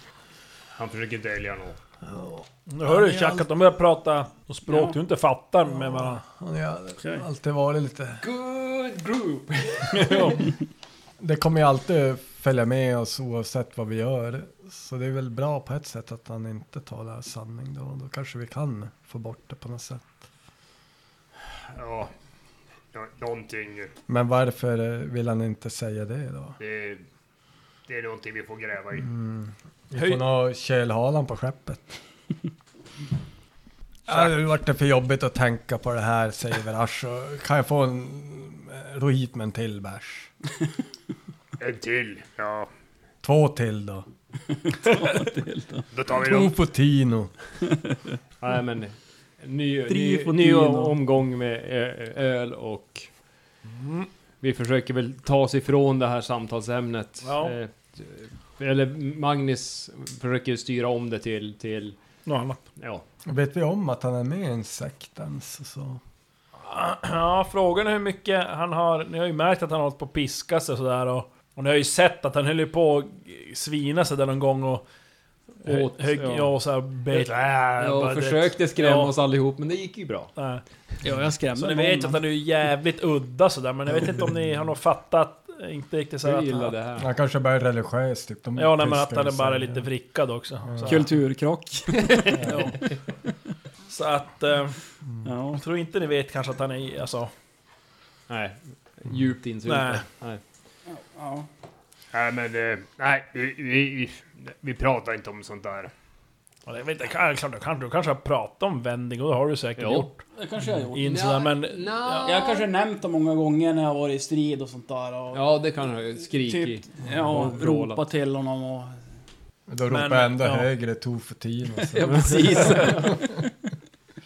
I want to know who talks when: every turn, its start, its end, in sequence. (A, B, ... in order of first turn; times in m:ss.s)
0:00.8-0:01.8 A
0:02.0-0:03.5 B
0:02.7-0:06.2 C
0:04.7-0:04.9 D
0:05.7-0:08.2 B
0:08.2-0:10.4 E
0:09.9-0:10.5 C
0:11.2-0:20.2 B
0:21.7-0:22.1 A
0:22.9-0:23.9 A
0:24.1-0:26.6 B
0:26.6-0:27.0 A
0:27.9-0:29.1 A
0:29.0-0:31.9 B
0:30.0-0:30.2 C
0:34.1-0:40.3 B
0:41.6-0:42.7 A
0:43.2-0:44.1 B
0:44.5-0:45.9 D
0:45.9-0:46.6 A
0:46.1-0:47.3 B
0:47.7-0:48.1 D
0:48.4-0:53.1 E
0:49.9-0:51.0 D
0:53.7-0:54.1 C
0:54.4-1:02.0 E
0:57.2-0:57.6 C
1:02.3-1:02.6 C
1:03.3-1:06.0 B
1:06.6-1:14.8 C
1:15.6-1:16.5 E
1:15.6-1:19.1 C
1:17.2-1:17.7 A
1:17.8-1:20.3 E
1:20.4-1:20.6 C
1:21.0-1:22.2 D
1:21.6-1:26.7 C
1:26.2-1:27.1 E
1:27.0-1:29.9 B
1:28.6-1:31.1 C
1:30.6-1:31.0 B
1:30.8-1:32.8 D
1:32.0-1:32.4 E
1:33.9-1:34.8 C
1:35.2-1:35.6 D
1:35.5-1:37.3 C
1:38.3-1:40.4 E
1:39.7-1:40.0 C
1:40.9-1:41.5 D
1:42.1-1:45.9 A
1:46.7-1:50.2 C
1:49.8-1:50.1 E
1:50.4-1:51.3 D
1:50.9-1:52.3 C
1:51.0-1:52.7 E
1:52.2-1:55.4 D
1:55.3-1:58.0 E
1:56.5-1:59.0 D
1:59.7-2:03.4 B
1:59.9-2:00.7 C
2:02.0-2:03.4 D